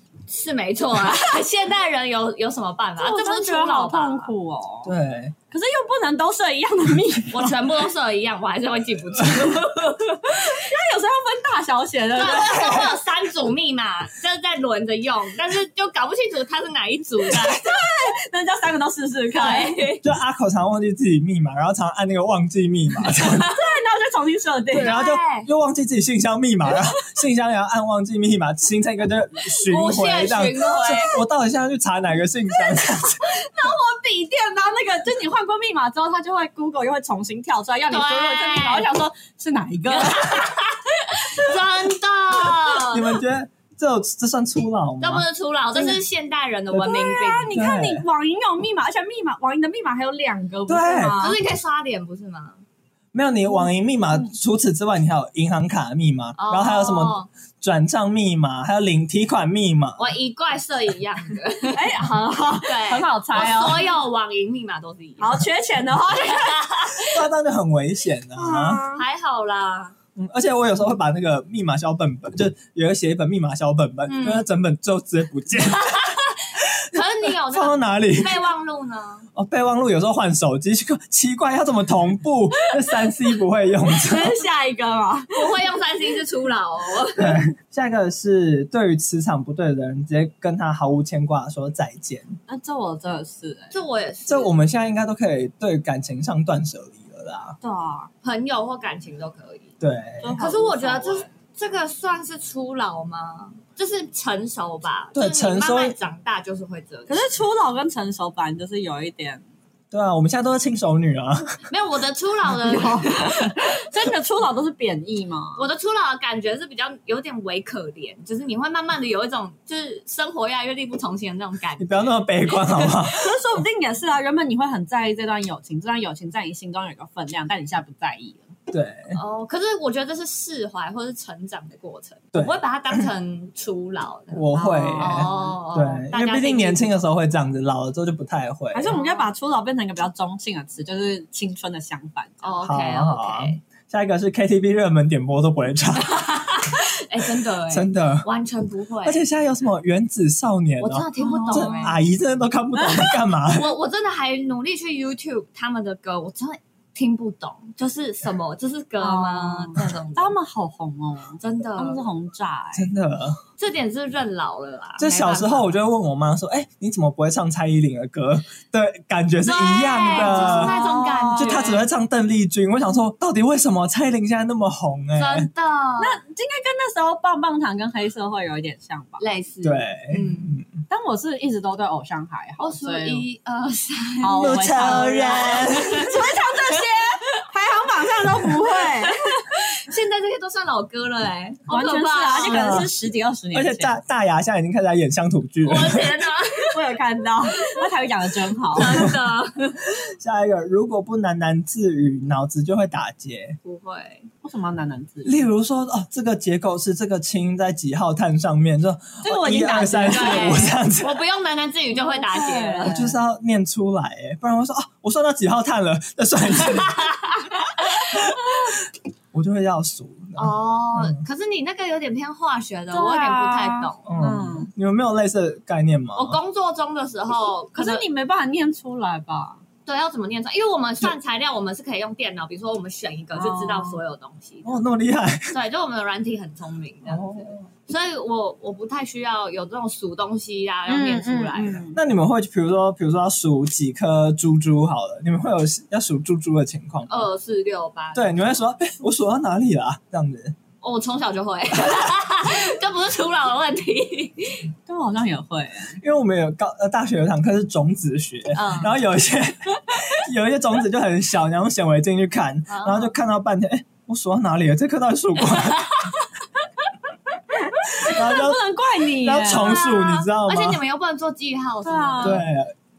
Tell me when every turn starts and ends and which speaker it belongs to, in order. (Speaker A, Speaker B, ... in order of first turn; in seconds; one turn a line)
Speaker A: 0.3-4.3
Speaker B: 3.0-4.9
Speaker C: 4.8-5.3
Speaker B: 5.5-7.5
Speaker A: 7.3-10.6
Speaker B: 10.3-12.9
Speaker A: 12.1-17.8
Speaker B: 17.3-19.9
Speaker A: 19.4-20.0
Speaker C: 20.0-23.5
Speaker B: 23.3-24.9
Speaker A: 24.7-25.5
Speaker C: 24.8-33.3
Speaker A: 29.6-31.2
Speaker B: 32.7-40.5
Speaker A: 37.9-38.9
Speaker A: 39.9-43.1
Speaker C: 42.9-45.2
Speaker A: 45.0-47.5
Speaker B: 46.7-51.4
Speaker C: 47.5-48.0
Speaker C: 50.7-51.2
Speaker A: 51.2-52.6
Speaker C: 53.1-60.0
Speaker A: 56.4-57.3
Speaker A: 60.0-61.9
Speaker B: 61.7-63.9
Speaker A: 62.6-65.4
Speaker B: 65.2-66.9
Speaker A: 66.2-67.1
Speaker C: 67.0-68.8
Speaker B: 68.3-69.0
Speaker A: 68.9-69.9
Speaker C: 70.2-76.1
Speaker A: 74.0-74.5
Speaker A: 75.8-79.3
Speaker C: 77.5-78.4
Speaker C: 79.3-84.4
Speaker B: 83.9-85.6
Speaker A: 85.3-87.4
Speaker C: 87.2-92.3
Speaker B: 92.5-93.7
Speaker A: 93.7-94.5
Speaker C: 94.3-97.6
Speaker B: 97.6-98.1
Speaker A: 98.2-99.7
Speaker C: 99.8-100.4
Speaker B: 100.2-101.3
Speaker A: 100.4-107.3
Speaker C: 105.1-105.9
Speaker B: 107.1-109.4
Speaker C: 109.9-111.5
Speaker A: 111.7-113.8
Speaker B: 112.6-115.6
Speaker A: 115.5-122.9
Speaker C: 121.8-123.3
Speaker B: 123.0-128.5
Speaker C: 128.7-129.2
Speaker A: 129.1-134.4
Speaker C: 132.3-133.1
Speaker C: 134.3-138.9
Speaker B: 134.5-135.5
Speaker A: 135.0-137.0
Speaker B: 138.7-142.5
Speaker A: 138.9-139.3
Speaker A: 142.4-143.6
Speaker C: 142.6-146.6
Speaker A: 146.1-149.2
Speaker C: 147.7-148.3
Speaker C: 149.0-153.7
Speaker A: 150.8-152.0
Speaker B: 151.2-152.0
Speaker A: 153.5-160.3
Speaker B: 159.0-162.9
Speaker A: 161.4-162.1
Speaker C: 162.7-163.4
Speaker A: 163.6-165.7
Speaker C: 165.0-170.8
Speaker A: 169.4-171.8
Speaker B: 170.1-171.8
Speaker C: 171.3-175.5
Speaker A: 175.2-176.2
Speaker B: 176.0-179.2
Speaker A: 179.2-180.6
Speaker C: 179.6-180.7
Speaker B: 180.9-183.2
Speaker A: 182.6-186.3
Speaker B: 184.2-189.3
Speaker C: 184.3-186.1
Speaker A: 188.4-192.9
Speaker B: 191.7-193.9
Speaker C: 192.3-192.9
Speaker C: 193.5-196.2
Speaker A: 195.6-196.8
Speaker B: 196.7-199.1
Speaker A: 198.7-199.8
Speaker C: 200.0-203.6
Speaker A: 203.6-204.2
Speaker B: 204.4-205.4
Speaker C: 205.2-211.2
Speaker B: 209.2-210.7
Speaker A: 210.1-212.9
Speaker B: 211.9-213.2
Speaker C: 212.9-217.0
Speaker C: 217.8-221.2
Speaker A: 220.4-224.0
Speaker B: 222.9-224.7
Speaker C: 224.1-226.4
Speaker A: 226.1-228.0
Speaker B: 227.7-229.6
Speaker A: 229.8-234.8
Speaker B: 233.3-234.0
Speaker C: 234.6-235.5
Speaker A: 235.5-241.9
Speaker C: 237.1-237.7
Speaker B: 240.9-242.0
Speaker C: 241.9-247.3
Speaker A: 247.1-248.3
Speaker C: 248.1-250.6
Speaker A: 250.8-254.6
Speaker B: 254.9-256.0
Speaker C: 256.0-266.0
Speaker A: 258.5-258.9
Speaker A: 262.7-263.1
Speaker A: 265.6-266.1
Speaker B: 267.9-269.8
Speaker C: 268.0-270.8
Speaker A: 269.5-272.4
Speaker B: 271.8-272.4
Speaker C: 272.2-272.7